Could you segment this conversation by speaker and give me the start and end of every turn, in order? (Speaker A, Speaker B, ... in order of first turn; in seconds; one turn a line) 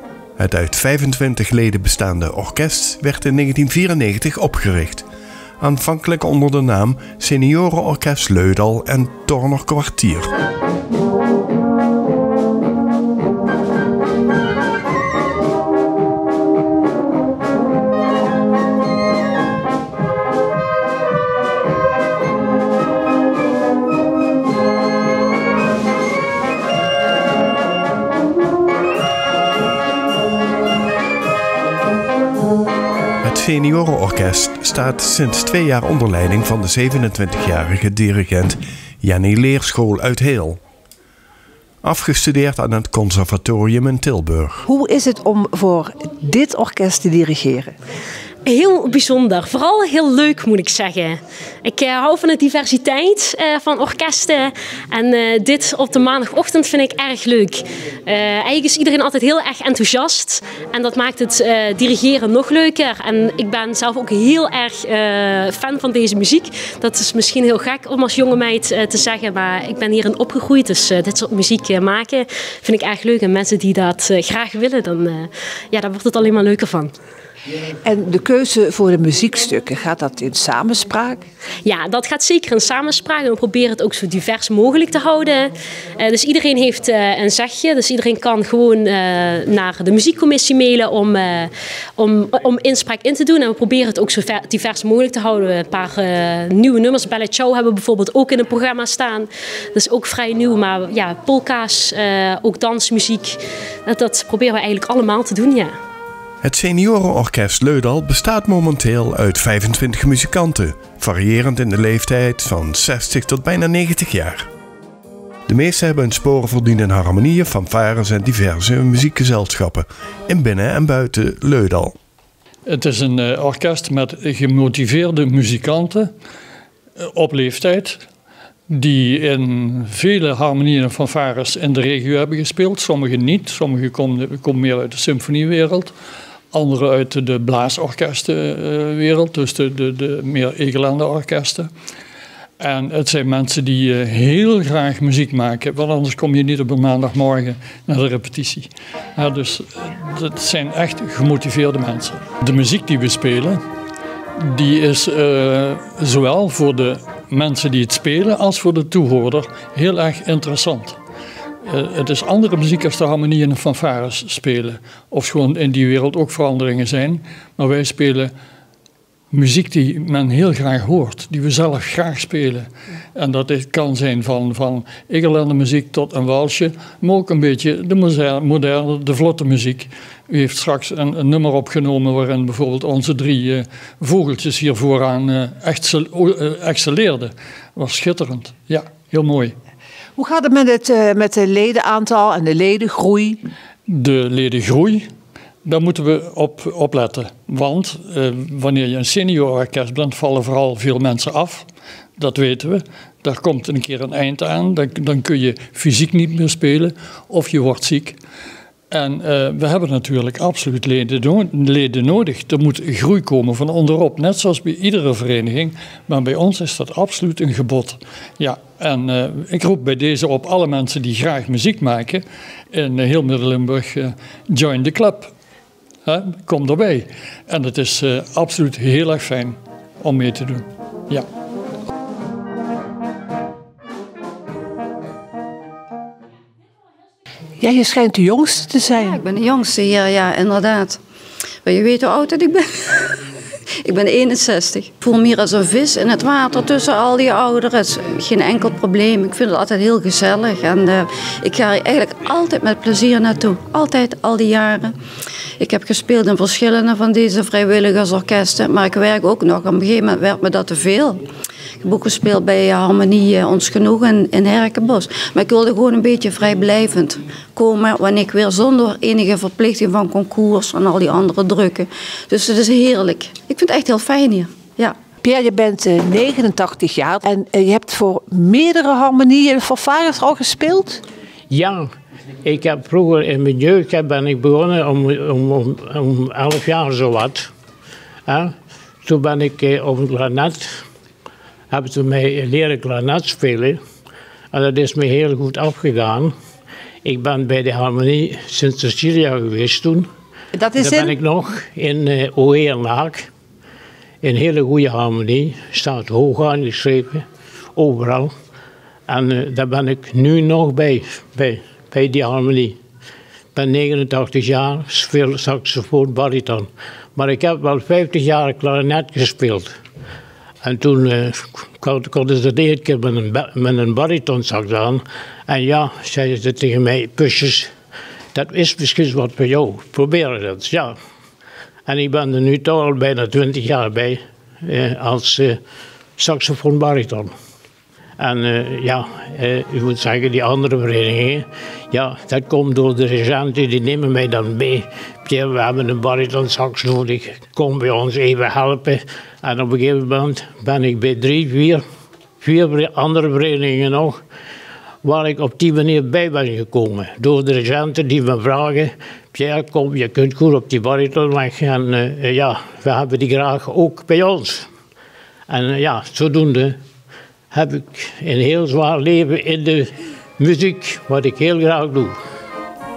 Speaker A: 0.4-5.1
Speaker A: 5.6-10.3
Speaker A: 33.2-40.6
Speaker A: 41.8-44.7
Speaker B: 44.7-47.8
Speaker C: 48.5-76.9
Speaker B: 77.8-81.2
Speaker C: 81.6-105.7
Speaker A: 106.4-114.5
Speaker A: 115.5-121.9
Speaker D: 122.7-126.1
Speaker D: 127.0-128.0
Speaker D: 128.7-135.9
Speaker D: 136.5-141.7
Speaker D: 142.6-153.6
Speaker D: 154.4-161.0
Speaker D: 161.7-168.3
Speaker D: 169.3-189.6
Speaker B: 190.2-193.4
Speaker D: 193.9-195.1
Speaker D: 195.6-201.7
Speaker D: 202.2-208.2
Speaker D: 208.9-225.3
Speaker D: 226.1-231.2
Speaker B: 237.6-239.1
Speaker E: 239.0-241.0
Speaker E: 241.7-243.2
Speaker E: 243.8-254.9
Speaker E: 255.6-261.2
Speaker E: 261.8-274.9
Speaker B: 275.2-281.0
Speaker F: 281.5-281.9
Speaker F: 282.4-287.5
Speaker F: 288.3-288.5
Speaker F: 289.1-290.8
Speaker F: 291.7-293.8
Speaker F: 294.5-296.3
Speaker F: 297.0-300.1
Speaker B: 300.6-301.1
Speaker F: 300.7-303.3
Speaker F: 304.2-307.2
Speaker F: 307.8-308.3
Speaker F: 309.1-312.8
Speaker F: 313.6-319.7
Speaker F: 320.6-327.7
Speaker F: 328.3-330.9
Speaker F: 331.9-335.6
Speaker F: 336.2-337.3
Speaker F: 338.2-351.8
Speaker F: 352.4-354.2
Speaker F: 355.0-364.7
Speaker F: 365.5-366.8
Speaker F: 367.5-372.2